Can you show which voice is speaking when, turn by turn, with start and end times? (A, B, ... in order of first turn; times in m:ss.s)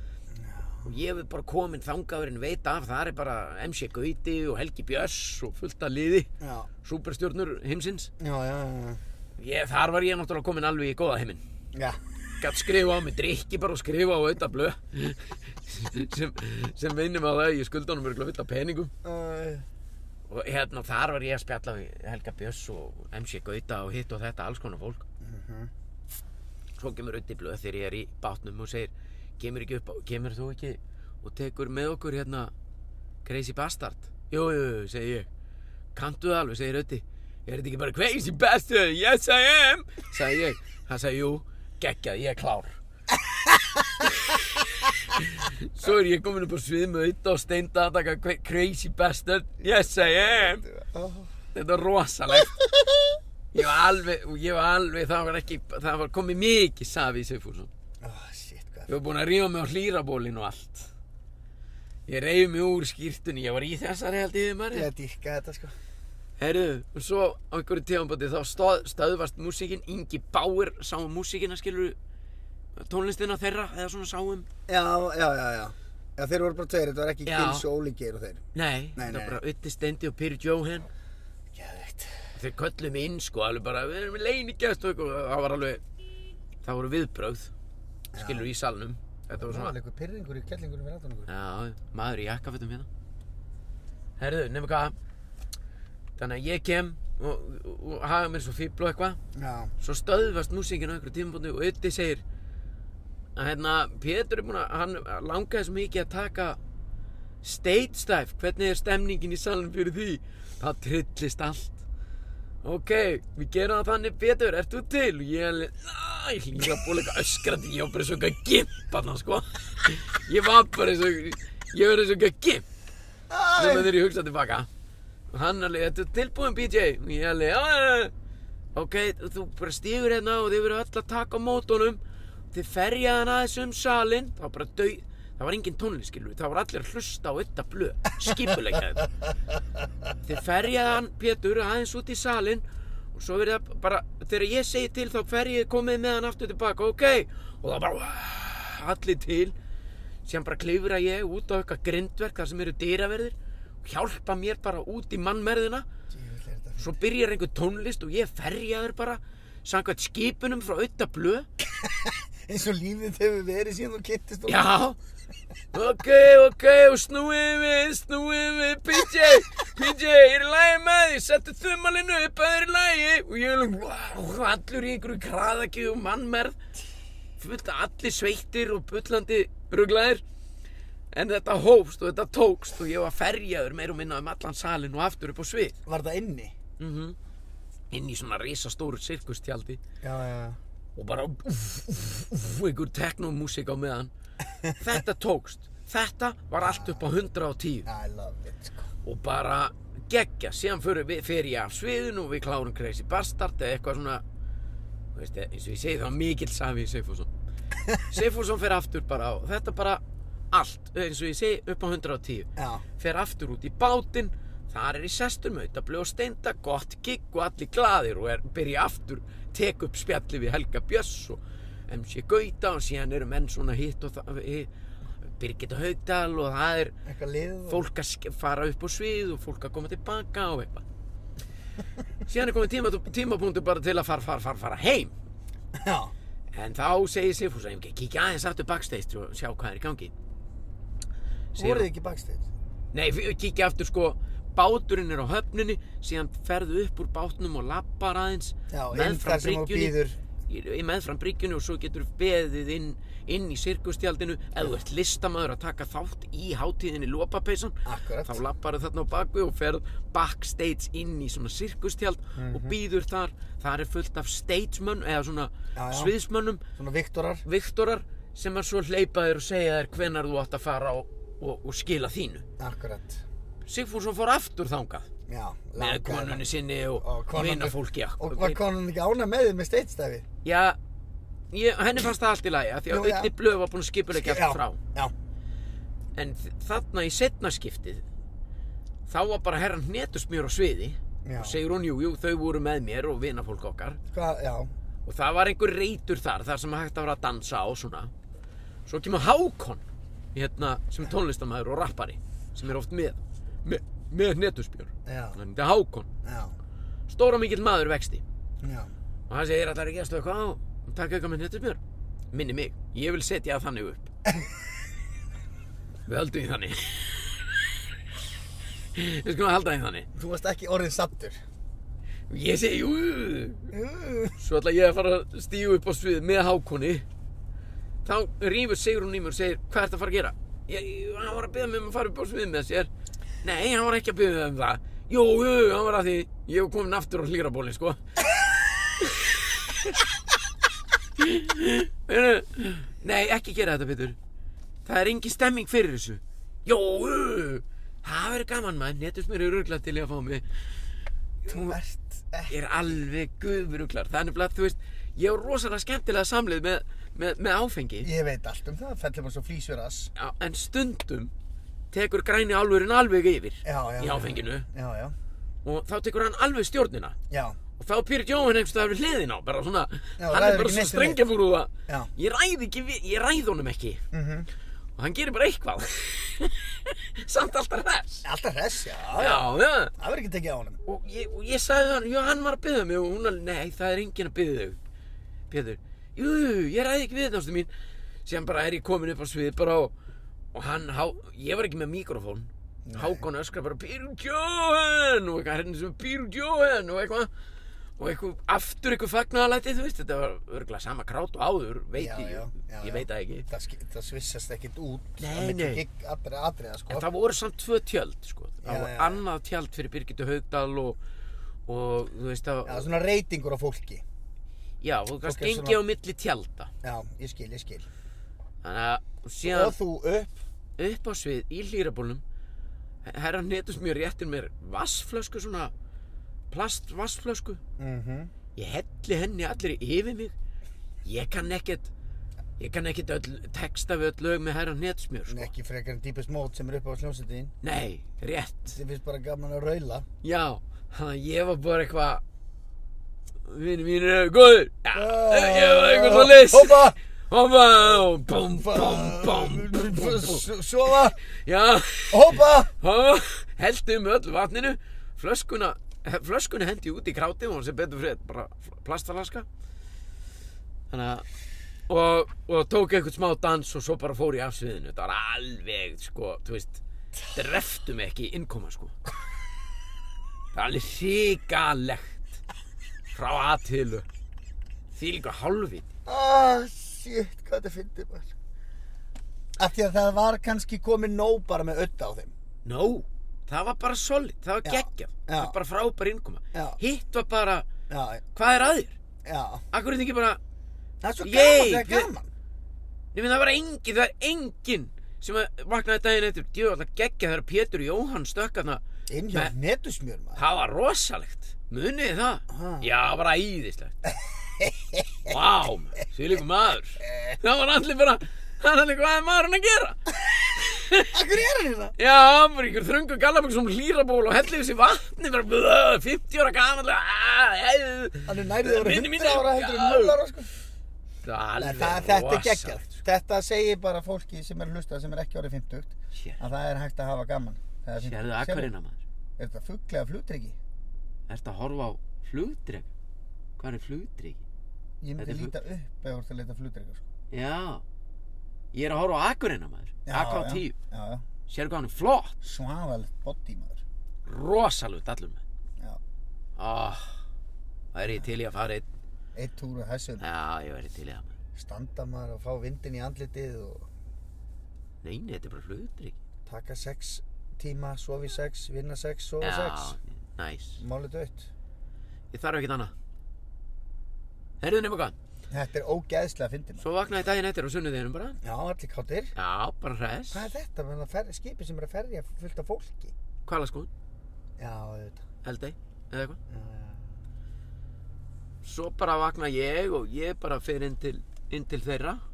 0:00.3-0:00.9 A
0:00.8-0:06.3 B
0:06.4-0:06.7 A
0:06.8-0:08.1 B
0:08.2-0:09.0 A
0:09.4-0:11.4 B
0:11.7-0:12.0 A
0:12.4-0:18.9 B
0:19.0-0:19.6 A
0:20.3-0:25.0 B
0:25.2-0:25.7 A
0:26.8-0:32.5 B
0:33.2-0:35.3 B
0:35.9-0:42.8 B
0:43.4-0:43.8 A
0:44.0-0:50.7 B
0:49.8-0:51.3 A
0:51.5-0:52.6 B
0:52.4-0:53.2 A
0:53.5-0:57.7 B
0:58.0-0:58.9 A
0:58.9-1:00.9 B
1:02.1-1:04.9 B
1:04.7-1:05.8 A
1:06.4-1:12.0 B
1:12.8-1:14.5 B
1:14.7-1:19.4 A
1:17.2-1:17.6 B
1:18.5-1:20.9 B
1:21.5-1:22.3 A
1:22.3-1:25.8 B
1:26.6-1:27.5 B
1:28.1-1:28.5 A
1:28.1-1:29.7 B
1:29.3-1:31.3 A
1:31.3-1:32.9 B
1:34.2-1:34.9 B
1:36.2-1:39.2 B
1:39.3-1:39.7 A
1:39.8-1:42.2 B
1:43.4-1:46.6 B
1:47.4-1:51.8 B
1:52.6-2:02.6 B
2:03.3-2:03.9 A
2:03.6-2:04.7 B
2:05.3-2:08.1 B
2:08.7-2:12.0 B
2:12.5-2:19.1 B
2:20.2-2:29.5 B
2:30.2-2:35.9 B
2:36.1-2:37.0 A
2:36.8-2:41.5 B
2:41.8-2:44.7 A
2:44.5-2:45.0 B
2:45.7-2:56.6 B
2:57.4-3:00.2 B
3:01.1-3:05.8 B
3:05.8-3:06.5 A
3:06.8-3:07.2 B
3:07.9-3:09.8 B
3:10.0-3:10.6 A
3:11.0-3:14.1 B
3:14.7-3:17.9 B
3:16.6-3:17.0 A
3:17.8-3:18.9 A
3:19.0-3:24.2 B
3:25.1-3:27.3 B
3:28.1-3:44.7 B
3:32.6-3:32.8 A
3:45.3-3:46.9 B
3:47.0-3:47.8 A
3:47.6-3:50.8 B
3:52.2-3:55.1 B
3:55.7-3:56.1 A
3:56.5-4:00.1 B
4:01.5-4:01.9 B
4:01.6-4:02.5 A
4:02.9-4:10.0 B
4:08.7-4:10.2 A
4:10.5-4:26.6 B
4:17.8-4:18.4 A
4:22.4-4:22.8 A
4:25.7-4:26.1 A
4:26.7-4:27.4 A
4:27.4-4:32.4 B
4:32.6-4:33.2 A
4:33.6-4:35.1 B
4:35.3-4:36.4 A
4:35.8-4:38.6 B
4:37.0-4:40.2 A
4:40.4-4:40.8 B
4:41.5-4:44.8 B
4:42.9-4:43.3 A
4:44.1-4:45.1 A
4:46.1-4:48.0 B
4:49.1-4:54.0 B
4:51.2-4:51.6 A
4:54.1-4:54.7 A
4:55.0-4:58.1 B
4:58.8-5:06.1 B
5:05.0-5:05.4 A
5:06.2-5:06.5 A
5:07.1-5:08.2 B
5:08.6-5:08.9 A
5:09.3-5:11.8 B
5:12.3-5:14.1 B
5:14.2-5:14.5 A
5:16.1-5:17.9 B
5:18.9-5:20.1 B
5:20.1-5:21.4 A
5:22.3-5:23.7 B
5:23.7-5:24.4 A
5:24.4-5:27.0 B
5:28.0-5:32.9 B
5:33.4-5:38.0 B
5:39.0-5:40.0 B
5:41.2-5:44.2 B
5:44.8-5:50.4 B
5:51.4-5:51.8 B
5:51.5-5:52.5 A
5:52.5-5:58.1 B
5:58.0-6:00.1 A
6:00.1-6:01.3 B
6:01.9-6:04.7 B
6:03.6-6:05.2 A
6:05.6-6:07.2 B
6:07.3-6:07.6 A
6:07.8-6:14.0 B
6:10.2-6:11.2 A
6:14.1-6:14.5 A
6:15.0-6:18.2 B
6:18.2-6:20.8 A
6:19.1-6:19.9 B
6:20.8-6:24.8 B
6:25.5-6:27.7 B
6:28.2-6:29.9 B
6:30.5-6:37.3 B
6:32.8-6:33.2 A
6:38.0-6:43.5 B
6:42.0-6:47.1 A
6:45.2-6:45.8 B
6:46.9-6:51.0 B
6:48.6-6:49.2 A
6:51.7-6:52.9 B
6:52.6-6:54.0 A
6:54.8-6:56.7 B
6:55.2-6:55.8 A
6:56.8-6:57.9 A
6:58.6-6:59.8 B
6:59.4-7:00.4 A
7:00.8-7:02.2 B
7:03.0-7:05.7 B
7:06.5-7:07.6 B
7:07.8-7:08.3 A
7:08.5-7:10.3 B
7:11.0-7:11.9 B
7:12.6-7:15.5 B
7:15.3-7:17.5 A
7:17.6-7:18.8 B
7:18.7-7:20.1 A
7:20.2-7:22.2 B
7:23.5-7:39.4 B
7:24.9-7:27.0 A
7:28.3-7:31.2 A
7:32.1-7:32.7 A
7:40.9-7:41.3 B
7:41.9-7:49.0 B
7:50.5-7:52.4 B
7:53.1-7:54.0 B
7:54.9-7:55.9 B
7:56.0-7:58.3 A
7:59.6-8:02.3 A
8:02.6-8:07.7 B
8:04.6-8:05.6 A
8:06.5-8:06.8 A
8:07.9-8:08.2 A
8:08.3-8:09.0 B
8:09.2-8:09.6 A
8:09.7-8:10.4 B
8:11.0-8:12.3 A
8:11.2-8:12.1 B
8:13.1-8:19.5 B
8:19.1-8:20.4 A
8:20.4-8:24.0 B
8:22.5-8:22.8 A
8:24.4-8:25.3 A
8:25.2-8:31.2 B
8:27.1-8:27.4 A
8:31.1-8:32.0 A
8:32.0-8:40.2 B
8:38.2-8:40.5 A
8:41.2-8:43.0 B
8:41.6-8:48.7 A
8:46.1-8:46.4 B
8:48.0-8:49.0 B
8:49.4-8:50.6 A
8:51.3-8:52.9 B
8:53.6-8:54.4 B
8:55.0-8:57.0 A
8:55.2-8:55.5 B
8:57.3-8:57.8 B
8:58.7-9:00.8 B
9:00.0-9:01.2 A
9:01.5-9:02.4 B
9:02.4-9:03.8 A
9:04.2-9:05.4 B
9:06.6-9:07.1 B
9:07.9-9:08.9 B
9:09.3-9:10.2 A
9:10.2-9:11.3 B
9:11.5-9:13.9 A
9:15.0-9:16.1 B
9:16.4-9:20.0 A
9:19.4-9:20.8 B
9:20.8-9:21.5 A
9:22.3-9:22.9 B
9:24.6-9:25.1 B
9:25.5-9:26.8 A
9:26.8-9:28.4 B
9:28.4-9:29.3 A
9:29.3-9:30.5 B
9:30.3-9:33.1 A
9:33.4-9:33.9 B
9:34.6-9:35.2 A
9:35.4-9:36.4 B
9:36.5-9:37.2 A
9:38.6-9:42.2 B